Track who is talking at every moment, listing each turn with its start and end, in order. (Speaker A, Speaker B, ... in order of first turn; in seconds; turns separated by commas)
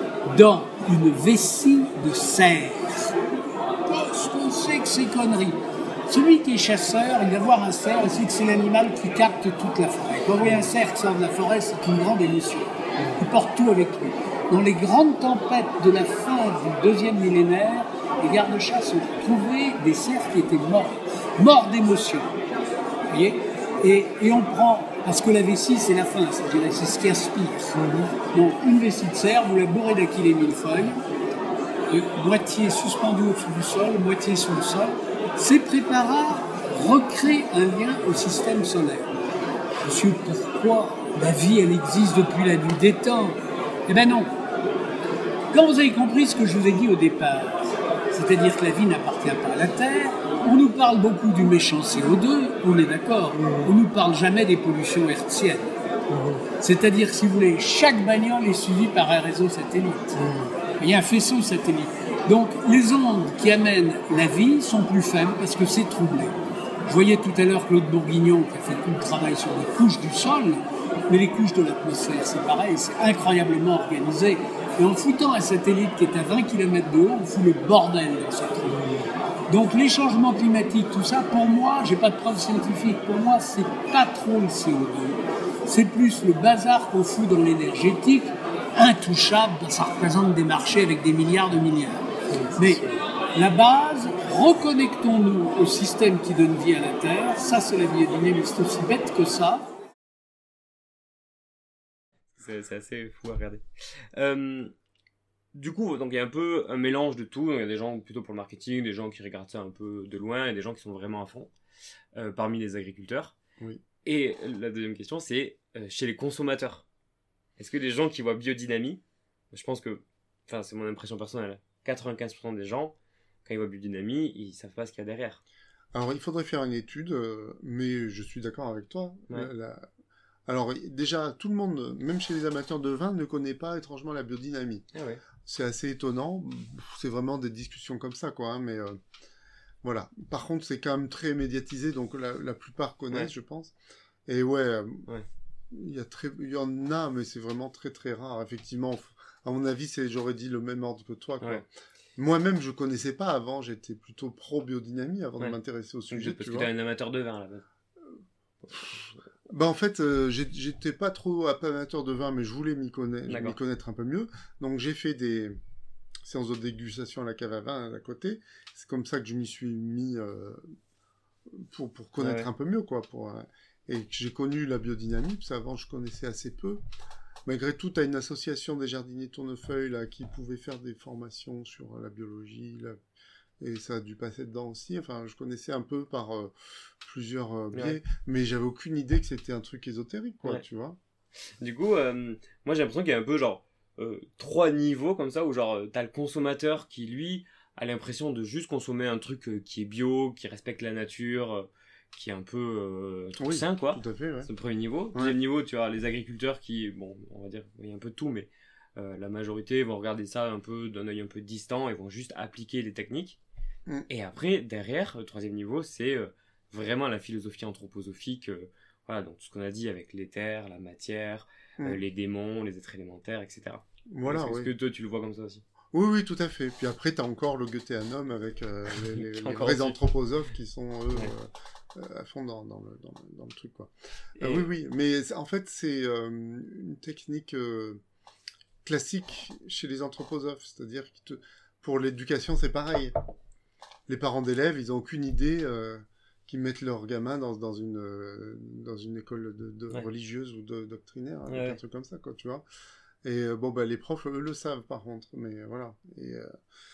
Speaker A: 0.3-3.1, Speaker A: 3.9-22.3, Speaker A: 23.1-31.0, Speaker A: 31.9-39.1, Speaker A: 39.8-44.3, Speaker A: 45.5-55.7, Speaker B: 53.3-53.7, Speaker B: 56.1-56.5, Speaker A: 56.6-60.3, Speaker B: 60.1-60.5, Speaker A: 60.8-92.0, Speaker C: 92.3-92.8, Speaker A: 92.6-99.7, Speaker C: 102.4-104.7, Speaker C: 105.5-111.5, Speaker C: 112.2-113.4, Speaker C: 114.0-116.9, Speaker C: 117.6-119.0, Speaker C: 119.5-125.4, Speaker B: 125.9-129.9, Speaker B: 130.5-134.9, Speaker C: 134.9-135.2, Speaker B: 135.4-139.0, Speaker B: 139.8-143.7, Speaker B: 144.3-145.1, Speaker B: 145.7-156.7, Speaker C: 156.1-157.6, Speaker C: 158.7-159.0, Speaker B: 159.5-165.6, Speaker C: 163.3-163.6, Speaker B: 166.2-170.7, Speaker B: 171.5-176.8, Speaker C: 172.2-172.5, Speaker B: 177.5-183.0, Speaker B: 183.6-191.0, Speaker C: 187.7-188.0, Speaker C: 191.6-213.4, Speaker B: 203.4-204.5, Speaker C: 214.1-225.6, Speaker B: 224.1-224.7, Speaker B: 225.9-238.0, Speaker C: 229.2-230.0, Speaker C: 234.4-234.7, Speaker B: 238.8-243.2, Speaker B: 244.1-252.6, Speaker C: 251.5-251.8, Speaker B: 253.2-256.5